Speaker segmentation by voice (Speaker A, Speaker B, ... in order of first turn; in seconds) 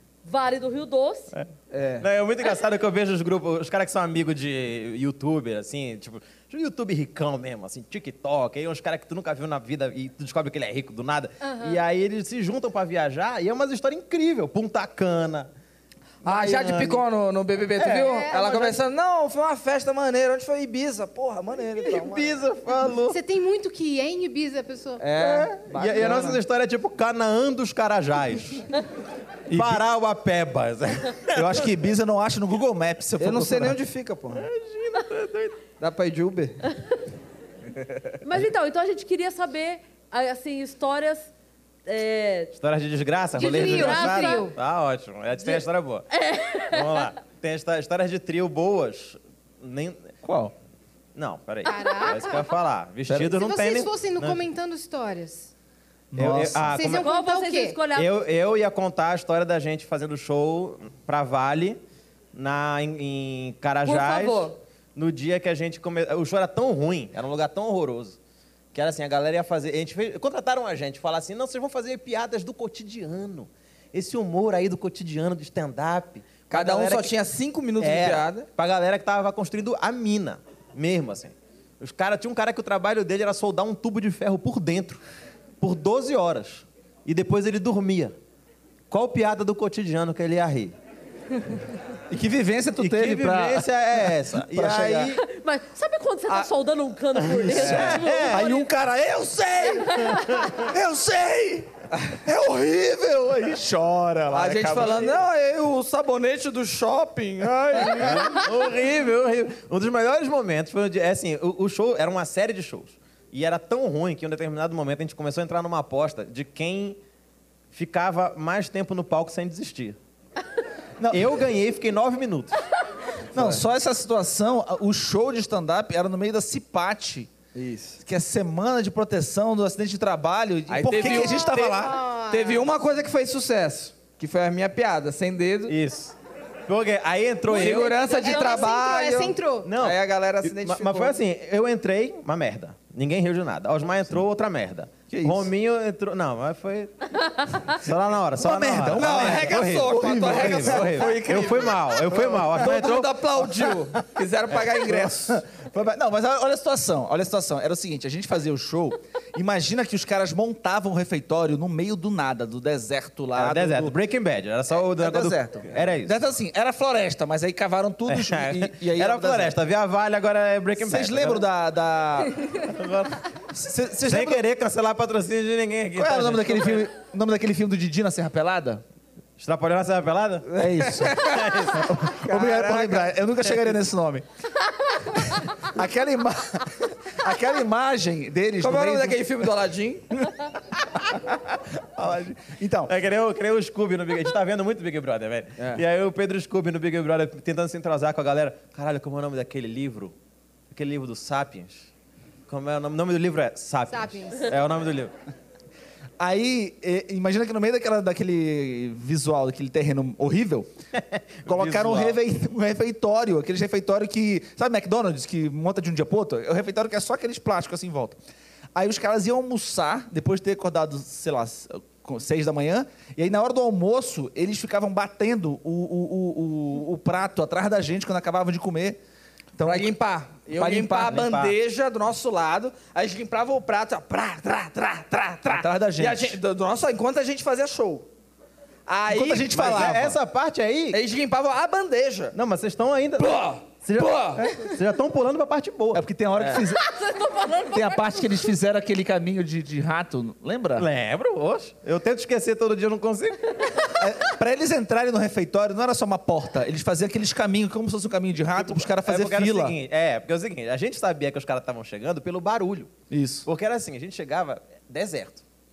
Speaker A: 0.2-1.3, 38.2-41.3, 41.9-42.5, 43.4-44.5, 45.4-47.1, 56.9-58.1, 63.9-64.5, 95.2-98.7, 99.9-100.4, 246.6-248.4
Speaker B: 1.7-2.1, 16.2-22.3, 25.0-26.4, 33.2-34.5, 35.8-36.6, 76.5-78.5, 104.3-108.3, 123.3-123.6, 127.5-128.0, 130.7-131.7, 132.3-135.8, 137.5-141.2, 149.0-155.3, 180.6-181.4, 182.2-183.3, 188.6-190.1, 229.6-238.1, 238.9-239.9, 240.9-242.3, 243.2-244.4
Speaker C: 2.0-15.5, 16.2-17.0, 17.8-18.8, 21.8-23.2, 25.2-28.6, 29.5-31.6, 34.3-35.6, 42.5-46.1, 46.7-50.1, 51.1-54.4, 56.1-57.1, 57.9-61.8, 62.3-68.2, 68.7-77.1, 77.8-85.0, 85.6-88.1, 88.9-90.7, 92.8-95.2, 97.2-98.5, 107.9-117.0, 117.7-120.0, 121.1-122.6, 135.7-136.1, 136.7-138.0, 139.6-146.9, 147.7-153.7, 163.3-166.2, 168.1-171.5, 172.6-173.2, 174.0-176.9, 179.4-180.4, 181.2-181.9, 192.9-200.1, 200.7-201.9, 202.5-205.1, 210.9-212.2, 231.0-231.6, 239.4-241.0, 242.3-246.0, 250.8-253.4, 258.6-262.9, 263.4-265.4
Speaker D: 11.4-11.8, 18.0-18.4, 23.1-25.0, 43.4-44.5, 51.6-52.5, 53.2-55.5, 56.6-57.8, 131.0-132.7, 137.5-139.7, 203.9-204.5
Speaker E: 29.5-29.8, 31.3-33.8, 50.2-50.5, 53.1-53.4, 56.1-56.8, 92.1-95.1, 97.5-100.0, 100.7-101.7, 102.2-105.2, 107.4-107.9, 121.0-121.4, 123.3-127.3, 128.0-131.9, 145.1-145.5, 148.4-152.9, 154.7-163.9, 164.9-169.6, 170.8-172.3, 173.5-174.4, 175.9-178.8, 180.6-184.2, 185.7-186.7, 187.2-189.3, 192.0-192.9, 206.2-210.7, 211.4-218.2, 218.7-229.0, 229.6-230.0, 230.5-231.3, 235.4-236.4, 239.1-240.2, 245.9-246.8, 247.7-250.9, 254.0-259.8, 263.1-263.5